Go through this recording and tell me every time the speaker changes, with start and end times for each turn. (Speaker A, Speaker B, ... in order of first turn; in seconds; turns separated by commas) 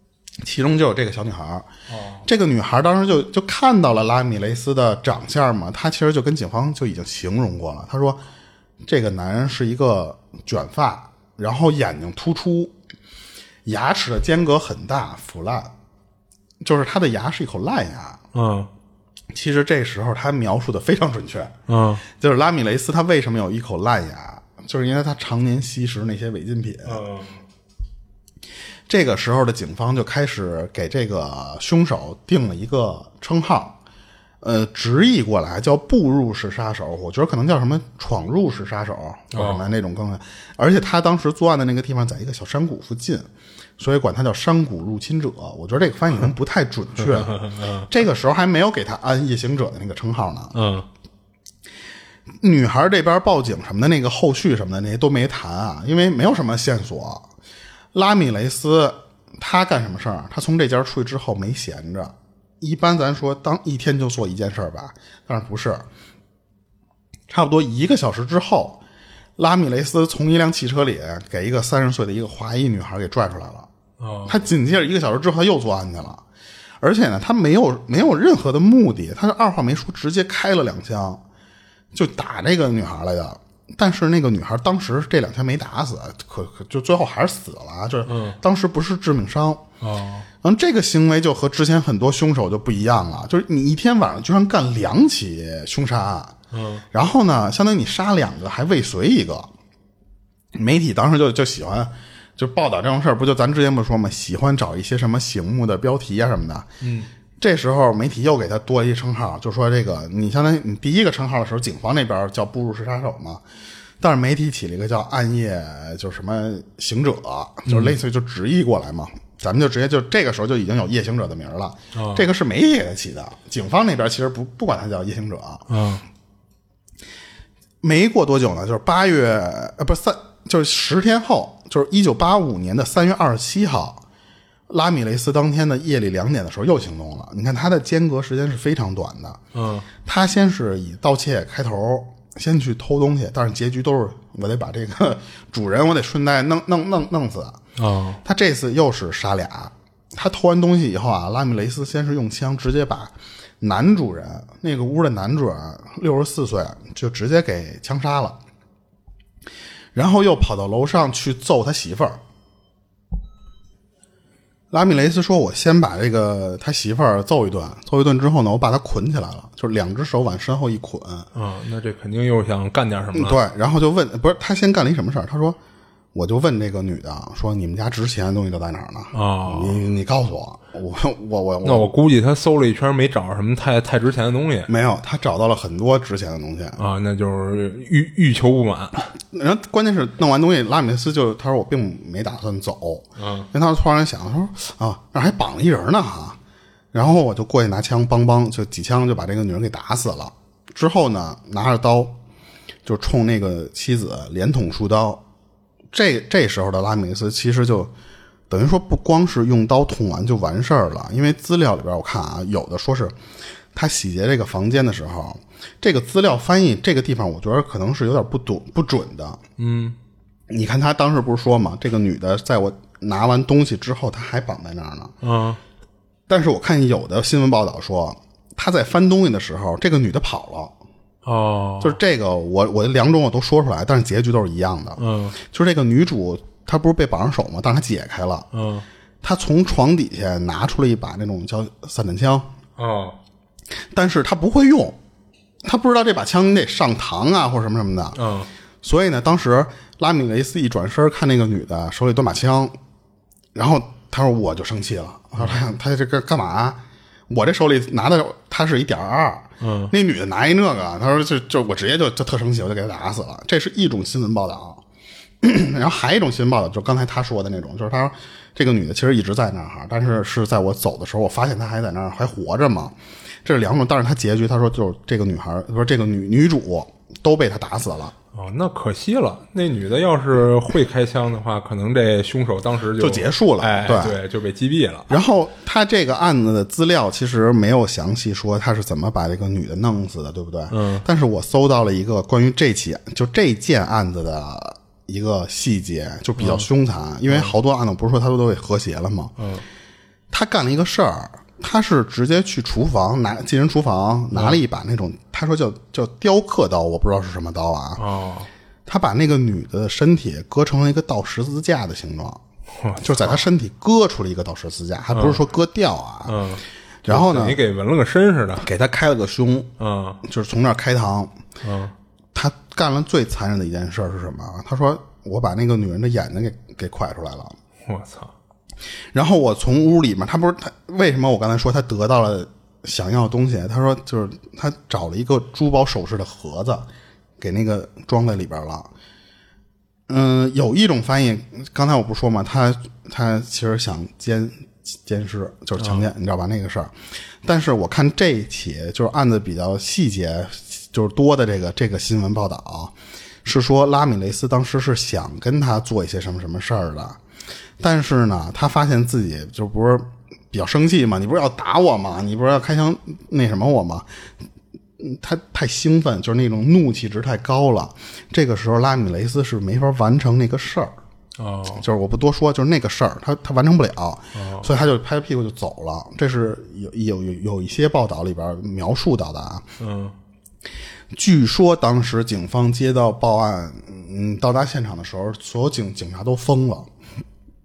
Speaker A: 0.4-1.7, Speaker B: 1.9-2.2, Speaker A: 2.2-8.2, Speaker A: 8.8-12.7, Speaker A: 13.6-15.7, Speaker A: 16.6-18.2, Speaker B: 18.3-18.7, Speaker A: 19.3-21.5, Speaker B: 21.7-22.0, Speaker A: 22.1-27.0, Speaker B: 26.9-27.4, Speaker A: 28.9-33.8, Speaker A: 34.4-43.3, Speaker B: 39.3-39.7, Speaker A: 43.8-50.5, Speaker B: 47.0-47.9, Speaker B: 50.5-50.9, Speaker A: 52.4-57.3, Speaker A: 57.9-65.8, Speaker A: 67.3-68.8, Speaker A: 69.4-73.7, Speaker B: 74.0-74.4, Speaker A: 74.2-76.2, Speaker A: 76.8-81.2, Speaker A: 81.9-89.6, Speaker B: 88.0-88.4, Speaker B: 89.8-90.3, Speaker A: 90.4-96.3, Speaker B: 96.5-96.8, Speaker A: 96.9-99.5, Speaker A: 100.5-106.7, Speaker B: 106.8-107.1, Speaker A: 107.4-113.4, Speaker A: 114.0-125.7, Speaker B: 117.7-118.0, Speaker B: 121.9-122.2, Speaker B: 125.7-126.0, Speaker A: 127.8-134.0, Speaker A: 134.7-139.4, Speaker B: 139.5-139.9, Speaker A: 140.0-147.6, Speaker B: 147.8-148.2, Speaker A: 148.2-158.4, Speaker A: 159.9-162.2, Speaker A: 164.7-171.3, Speaker B: 171.3-173.4, Speaker A: 173.1-175.6, Speaker A: 176.1-181.9, Speaker B: 179.1-179.8, Speaker B: 181.6-184.7, Speaker A: 184.7-186.8, Speaker B: 186.8-189.1, Speaker A: 189.3-196.4, Speaker B: 193.2-193.5, Speaker A: 196.9-202.2, Speaker A: 202.8-205.2, Speaker A: 205.9-207.9, Speaker A: 208.5-213.1, Speaker A: 213.7-219.4, Speaker B: 219.6-220.0, Speaker A: 220.5-225.1, Speaker B: 225.2-225.6, Speaker A: 226.3-230.8, Speaker B: 231.2-232.0, Speaker A: 231.8-238.5, Speaker B: 235.0-235.3, Speaker B: 238.5-238.8, Speaker A: 239.2-242.5, Speaker B: 242.8-243.2, Speaker A: 243.9-245.0, Speaker A: 245.6-248.2, Speaker B: 248.2-248.5, Speaker A: 248.8-252.8, Speaker A: 253.5-264.8, Speaker B: 259.6-259.9, Speaker A: 265.4-278.1, Speaker B: 278.3-285.1, Speaker A: 283.0-284.2, Speaker A: 285.1-299.3, Speaker B: 290.7-291.0, Speaker B: 296.4-296.7, Speaker B: 297.3-297.5, Speaker B: 299.4-299.6, Speaker A: 300.3-308.0, Speaker B: 304.3-304.6, Speaker B: 308.0-308.5, Speaker A: 308.9-312.4, Speaker B: 312.7-313.4, Speaker A: 312.9-316.4, Speaker B: 315.1-315.4, Speaker B: 316.2-318.7, Speaker A: 317.0-317.6, Speaker A: 318.6-319.7, Speaker B: 319.8-320.2, Speaker A: 320.2-321.3, Speaker B: 321.6-321.9, Speaker A: 322.3-327.6, Speaker B: 327.8-328.3, Speaker A: 329.1-336.9, Speaker A: 337.4-338.9, Speaker A: 340.1-346.9, Speaker B: 345.8-346.1, Speaker A: 347.4-352.9, Speaker A: 353.4-357.2, Speaker A: 357.8-364.1, Speaker A: 365.0-370.9, Speaker B: 371.4-371.8, Speaker A: 371.8-379.7, Speaker B: 374.3-374.7, Speaker B: 379.8-380.1, Speaker A: 381.1-386.9